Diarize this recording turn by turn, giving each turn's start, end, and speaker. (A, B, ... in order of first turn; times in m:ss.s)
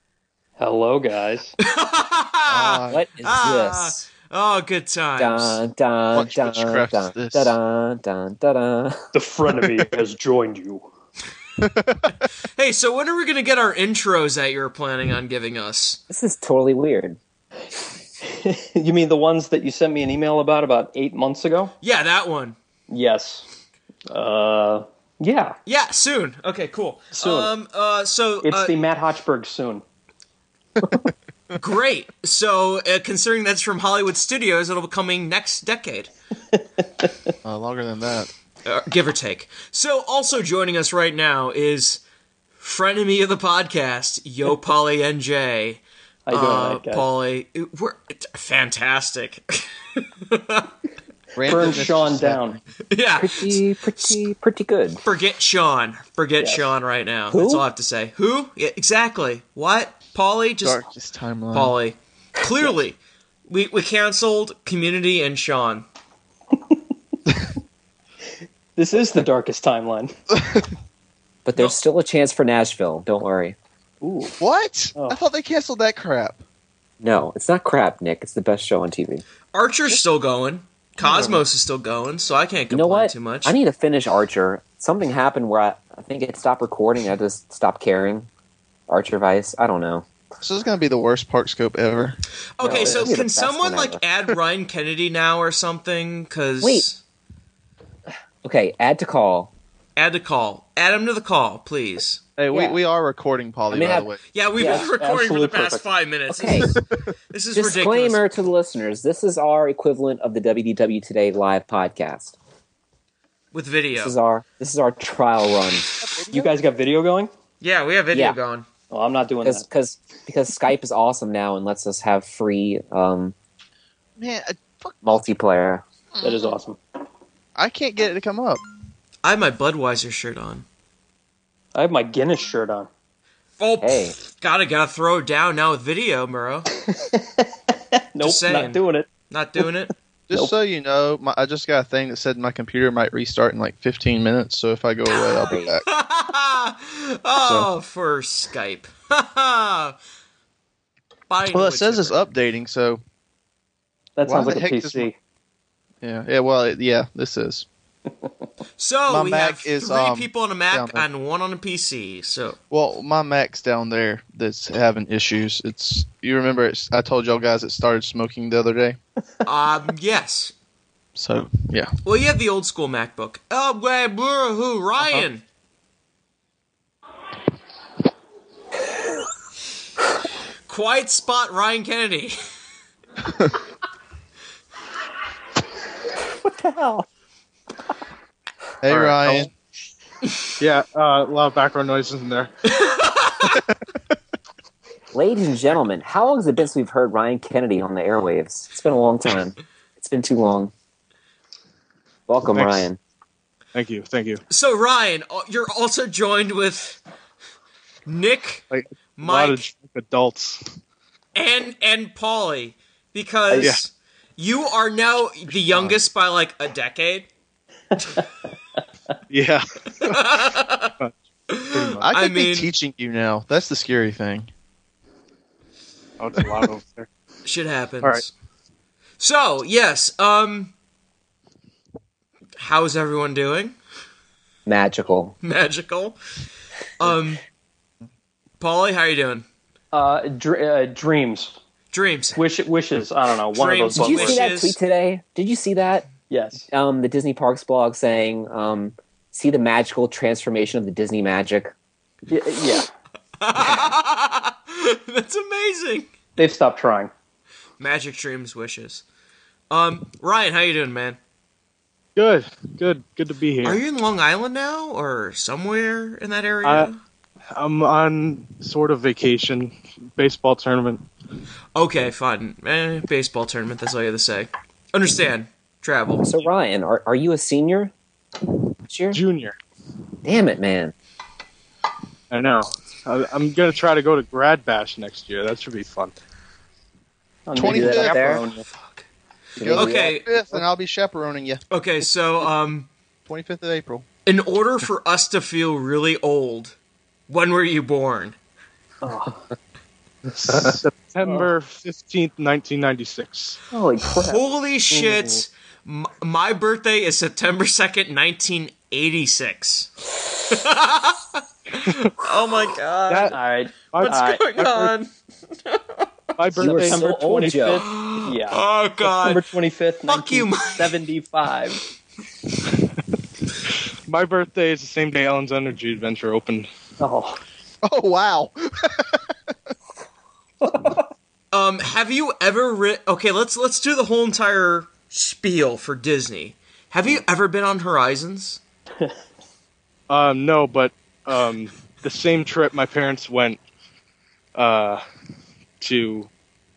0:00.6-0:01.5 A
0:01.6-0:05.6 B
0:02.5-0:03.0 C
0:02.9-0:04.1 D
0:05.2-0:09.0 D
0:06.1-0:07.5 C
0:09.1-0:10.9 A
0:11.6-0:12.1 C
0:12.6-0:16.0 B
0:16.1-0:17.2 D
0:18.2-0:21.7 A
0:21.8-0:22.6 B
0:22.9-0:23.4 A
0:24.1-0:25.6 A
0:25.7-0:28.8 B
0:27.2-0:27.5 A
0:28.4-0:29.8 A
0:31.6-0:36.1 B
0:36.6-0:37.1 A
0:37.4-0:38.3 C
0:38.6-0:42.0 B
0:42.6-0:50.7 B
0:46.3-0:47.0 A
0:51.4-0:52.6 C
0:51.4-0:52.6 A
0:52.9-0:54.2 B
0:53.2-0:55.0 D
0:55.0-1:00.8 B
0:57.3-0:57.6 D
1:00.6-1:01.8 C
1:01.5-1:05.8 B
1:08.8-1:10.1 A
1:11.4-1:13.6 D
1:14.0-1:14.3 A
1:14.4-1:16.4 C
1:17.0-1:19.2 D
1:19.5-1:23.5 B
1:21.0-1:21.4 C
1:22.7-1:28.3 D
1:28.9-1:30.0 D
1:30.4-1:33.1 C
1:32.6-1:37.0 B
1:32.6-1:34.0 D
1:36.6-1:36.9 D
1:38.4-1:39.5 D
1:40.0-1:42.2 B
1:42.4-1:44.2 C
1:42.5-1:42.8 D
1:43.7-1:44.9 D
1:44.3-1:46.8 B
1:44.6-1:45.8 A
1:46.3-1:46.8 D
1:47.3-1:48.2 B
1:47.5-1:52.3 D
1:53.5-1:54.1 B
1:54.0-1:56.4 D
1:56.1-1:56.4 C
1:56.3-1:57.3 A
1:57.6-1:58.6 B
1:58.1-1:58.4 D
1:58.9-1:59.6 A
1:59.4-2:03.3 D
2:04.2-2:05.0 C
2:05.0-2:05.8 D
2:06.2-2:06.8 A
2:07.6-2:08.6 C
2:09.2-2:10.6 B
2:11.7-2:12.9 A
2:13.6-2:16.7 B
2:13.8-2:14.2 D
2:16.9-2:17.2 A
2:18.1-2:19.1 A
2:18.2-2:19.9 B
2:20.3-2:25.8 C
2:25.4-2:25.8 D
2:25.8-2:30.0 B
2:27.4-2:27.7 C
2:31.3-2:32.2 B
2:31.5-2:33.0 C
2:34.2-2:35.2 A
2:34.2-2:35.1 C
2:36.0-2:37.7 C
2:38.8-2:42.6 B
2:39.1-2:41.0 C
2:42.7-2:49.0 C
2:49.4-2:50.5 B
2:51.1-2:51.9 C
2:52.0-2:55.4 B
3:00.7-3:02.4 B
3:06.4-3:07.0 D
3:08.8-3:09.5 C
3:08.9-3:09.5 E
3:10.6-3:12.5 E
3:12.7-3:13.6 B
3:15.1-3:20.7 D
3:22.3-3:23.0 D
3:22.5-3:22.9 E
3:23.7-3:24.4 E
3:24.5-3:27.0 B
3:28.1-3:28.6 B
3:28.7-3:30.6 E
3:29.2-3:29.6 B
3:31.3-3:37.3 B
3:39.3-3:40.2 E
3:40.0-3:40.9 B
3:41.5-3:42.7 B
3:41.7-3:42.0 E
3:42.0-3:44.5 C
3:46.2-3:47.1 E
3:47.4-3:48.3 B
3:49.2-3:50.7 B
3:52.6-3:53.8 B
3:54.6-3:55.3 D
3:55.4-3:56.2 B
3:57.0-3:57.4 B
3:58.6-3:59.4 B
3:59.9-4:01.5 A
4:01.9-4:02.4 B
4:02.4-4:04.4 A
4:03.5-4:04.8 B
4:03.9-4:06.0 D
4:06.3-4:06.7 A
4:06.7-4:11.7 D
4:12.3-4:12.9 A
4:13.4-4:16.1 B
4:13.5-4:13.9 D
4:16.4-4:17.1 A
4:17.8-4:19.0 B
4:19.7-4:21.2 B
4:22.2-4:23.8 E
4:23.6-4:27.0 B
4:26.6-4:26.9 E
4:27.5-4:31.0 E
4:31.7-4:36.3 B
4:36.2-4:37.9 D
4:38.9-4:39.2 D
4:39.1-4:39.6 E
4:40.2-4:40.9 D
4:42.3-4:46.1 E
4:47.5-4:48.6 A
4:47.6-4:48.4 C
4:47.6-4:48.4 D
4:48.7-4:49.0 B
4:49.6-4:50.2 D
4:49.6-4:51.6 C
4:49.7-4:50.2 B
4:51.7-4:52.9 B
4:53.3-4:54.0 C
4:54.2-4:56.7 B
4:57.3-4:58.4 B
4:59.0-4:59.4 A
5:00.6-5:03.6 E
5:03.7-5:04.4 A
5:04.3-5:09.9 B
5:10.5-5:13.4 B
5:13.1-5:13.3 E
5:13.3-5:14.4 A
5:13.9-5:14.9 E
5:14.0-5:15.1 B
5:15.6-5:16.0 B
5:16.4-5:17.0 E
5:16.6-5:17.8 D
5:16.6-5:21.8 A
5:17.8-5:19.4 B
5:20.1-5:20.9 B
5:24.1-5:26.7 E
5:27.0-5:27.4 A
5:27.8-5:29.2 C
5:31.5-5:38.6 B
5:40.1-5:43.6 E
5:44.6-5:45.0 E
5:45.8-5:46.3 E